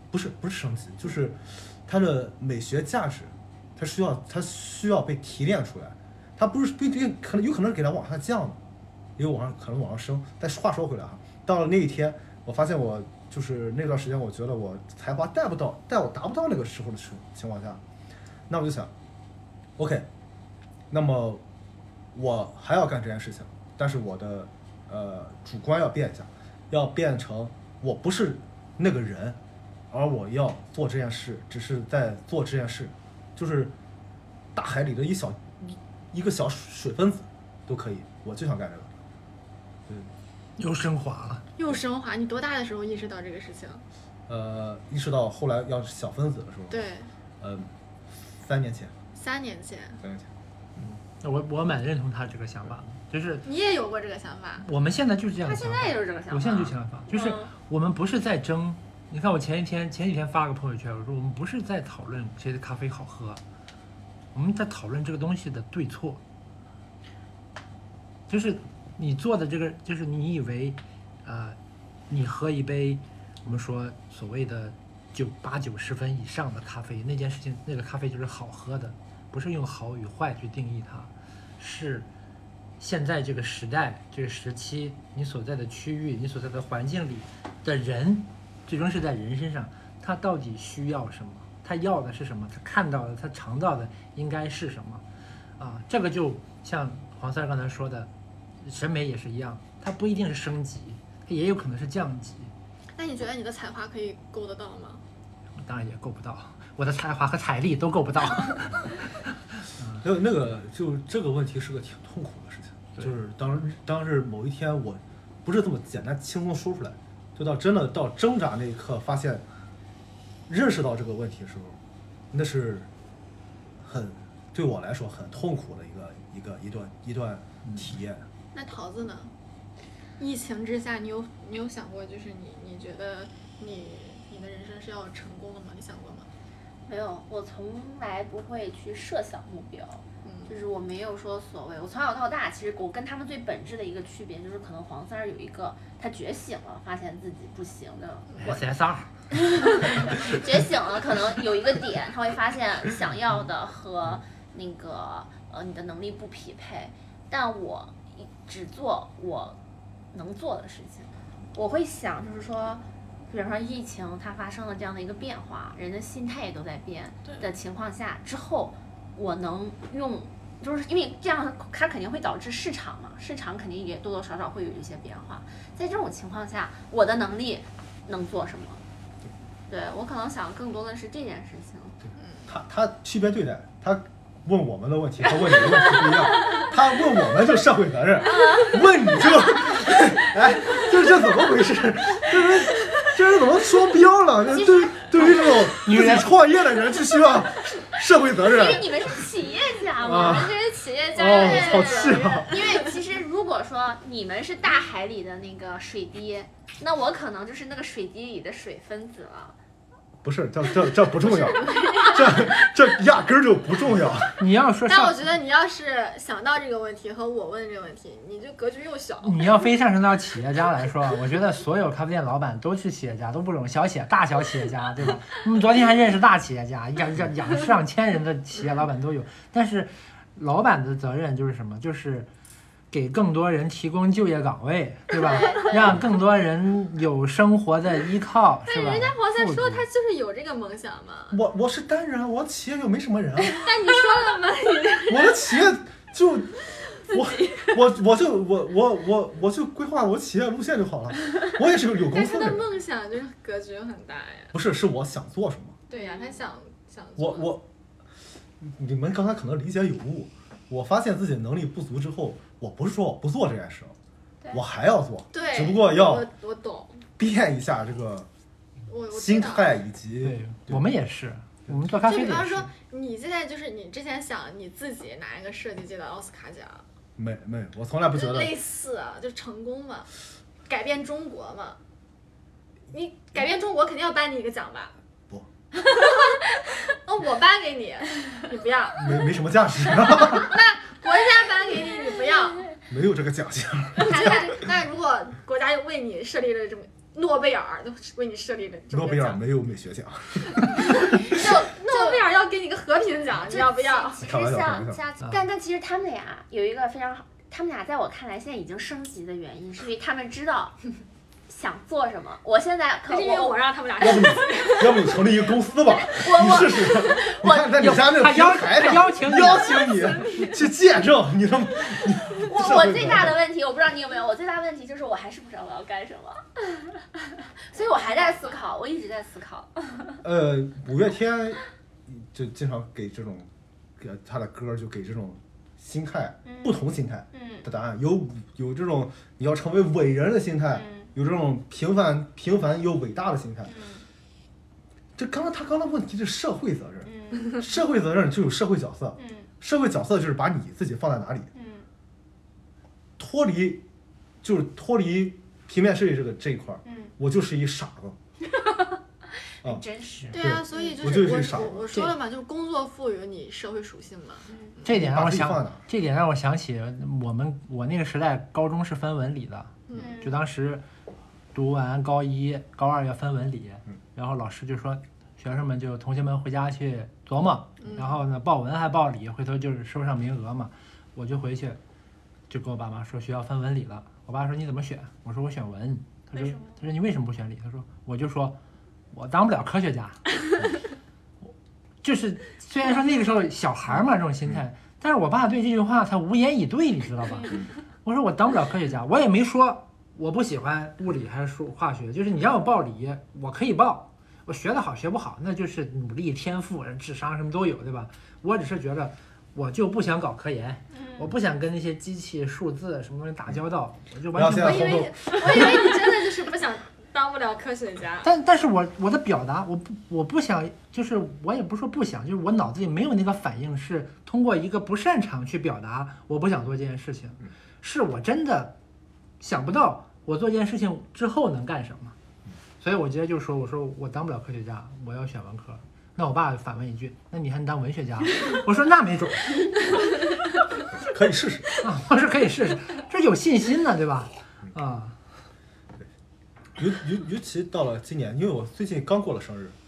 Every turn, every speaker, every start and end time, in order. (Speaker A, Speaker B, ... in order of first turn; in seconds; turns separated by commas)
Speaker A: 0.1-8.6, Speaker A: 9.2-17.8, Speaker A: 18.5-18.9, Speaker A: 19.8-20.1, Speaker A: 20.9-21.4, Speaker A: 22.1-29.4, Speaker A: 29.9-33.8, Speaker A: 34.5-38.9, Speaker B: 40.6-41.5, Speaker C: 41.6-43.8, Speaker A: 44.3-46.9, Speaker C: 46.7-47.1, Speaker A: 47.4-47.7, Speaker A: 48.4-48.9, Speaker C: 49.2-50.0, Speaker A: 50.0-50.3, Speaker B: 50.8-53.5, Speaker C: 53.5-54.7, Speaker B: 54.6-63.4, Speaker D: 55.4-57.5, Speaker B: 64.3-66.2, Speaker B: 68.3-71.6, Speaker B: 72.1-82.1, Speaker B: 82.8-95.0, Speaker B: 95.6-98.1, Speaker B: 98.6-102.5, Speaker C: 103.0-105.0, Speaker B: 105.6-110.0, Speaker A: 110.0-119.5, Speaker A: 120.5-121.8, Speaker A: 122.3-122.9, Speaker A: 123.8-128.3, Speaker C: 128.5-129.3, Speaker C: 130.2-136.3, Speaker D: 136.9-148.6, Speaker C: 140.2-140.6, Speaker B: 148.4-149.1, Speaker D: 149.3-159.6, Speaker D: 160.1-178.8, Speaker D: 179.7-182.0, Speaker C: 182.2-182.5, Speaker A: 182.5-199.3, Speaker D: 188.4-188.7, Speaker D: 194.5-195.7, Speaker B: 195.8-196.3, Speaker D: 198.3-209.6, Speaker A: 200.0-200.6, Speaker C: 200.1-202.9, Speaker A: 201.2-202.6, Speaker A: 210.2-214.4, Speaker C: 211.3-212.5, Speaker D: 211.7-212.5, Speaker B: 214.4-215.2, Speaker C: 214.9-219.7, Speaker B: 219.2-232.3, Speaker B: 232.9-239.9, Speaker C: 235.2-235.8, Speaker C: 238.7-241.4, Speaker A: 241.3-243.7, Speaker C: 243.5-245.6, Speaker A: 245.1-252.7, Speaker C: 247.1-247.7, Speaker C: 252.0-254.5, Speaker A: 254.5-255.8, Speaker C: 255.9-257.6, Speaker D: 255.9-256.4, Speaker A: 257.2-257.7, Speaker A: 258.6-263.9, Speaker A: 264.5-266.3, Speaker C: 265.3-267.0, Speaker A: 267.2-268.3, Speaker C: 268.9-269.7, Speaker A: 269.1-270.9, Speaker B: 270.2-272.7, Speaker C: 272.1-276.8, Speaker A: 277.2-278.6, Speaker C: 278.1-280.1, Speaker C: 280.7-281.8, Speaker C: 282.9-285.0, Speaker C: 285.8-289.4, Speaker A: 289.0-290.6, Speaker C: 290.0-292.7, Speaker A: 292.9-294.5, Speaker C: 294.0-299.4, Speaker D: 294.0-294.6, Speaker A: 298.9-301.6, Speaker C: 300.6-304.2, Speaker D: 301.9-302.2, Speaker D: 303.5-310.8, Speaker A: 304.2-305.0, Speaker D: 311.5-313.6, Speaker C: 313.1-315.3, Speaker A: 314.0-323.4, Speaker D: 316.1-317.7, Speaker B: 317.8-319.9, Speaker D: 322.4-330.2, Speaker A: 330.2-343.7, Speaker D: 336.4-336.8, Speaker D: 337.3-337.7, Speaker D: 340.7-341.1, Speaker D: 343.7-344.1, Speaker A: 345.2-351.5, Speaker D: 347.1-347.6, Speaker D: 349.2-349.5, Speaker D: 351.5-351.9, Speaker A: 353.2-353.9, Speaker A: 354.4-358.2, Speaker D: 356.9-357.1, Speaker D: 358.5-359.0, Speaker D: 359.6-361.0, Speaker A: 359.6-361.9, Speaker C: 360.3-364.9, Speaker D: 364.5-364.8, Speaker B: 364.9-370.9, Speaker A: 364.9-365.8, Speaker D: 369.9-370.4, Speaker B: 371.5-381.8, Speaker C: 377.8-378.2, Speaker B: 382.5-388.6, Speaker D: 386.3-386.8, Speaker B: 389.1-390.2, Speaker B: 392.0-415.1, Speaker D: 410.9-411.3, Speaker A: 414.3-415.9, Speaker C: 414.6-418.3, Speaker B: 418.2-428.8, Speaker B: 429.4-432.2, Speaker B: 432.8-440.1, Speaker A: 440.9-441.7, Speaker B: 441.8-445.2, Speaker A: 446.8-449.8